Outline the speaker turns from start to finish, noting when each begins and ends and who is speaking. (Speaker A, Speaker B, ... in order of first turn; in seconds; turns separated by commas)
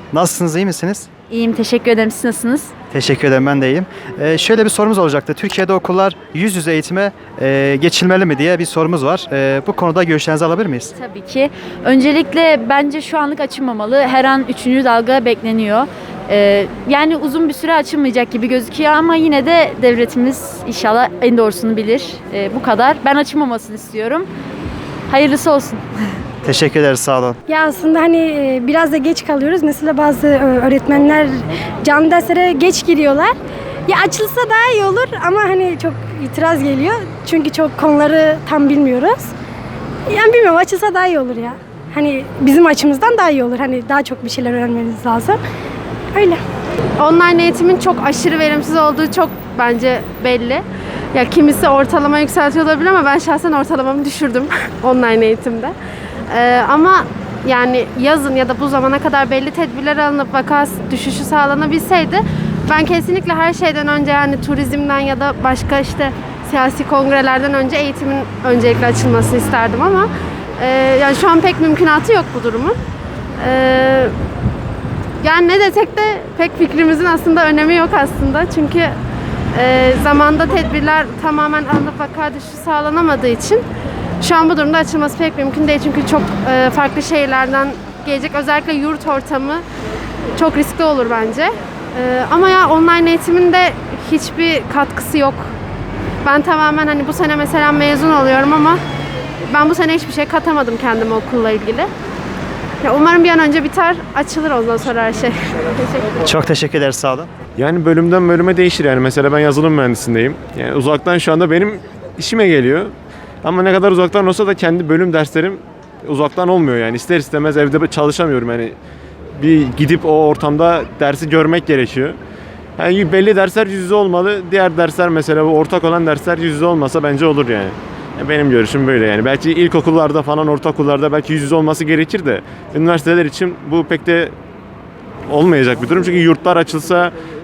Speaker A: 0.1-1.1, Speaker B: 1.3-2.7, Speaker A: 2.9-10.9, Speaker B: 11.0-24.3, Speaker B: 25.1-25.8, Speaker A: 26.4-27.4, Speaker C: 27.5-33.3, Speaker C: 33.9-39.3, Speaker C: 40.1-45.4, Speaker C: 46.1-46.4, Speaker D: 47.0-50.6, Speaker D: 51.1-55.7, Speaker D: 56.3-72.8, Speaker D: 73.4-74.1, Speaker D: 75.2-78.9, Speaker D: 79.5-83.6, Speaker D: 84.2-89.6, Speaker D: 90.4-95.5, Speaker D: 96.2-98.8, Speaker D: 99.5-101.9, Speaker D: 102.8-105.3, Speaker A: 106.2-107.3, Speaker E: 107.6-118.8, Speaker E: 119.4-122.2, Speaker E: 122.8-134.3, Speaker E: 135.3-137.1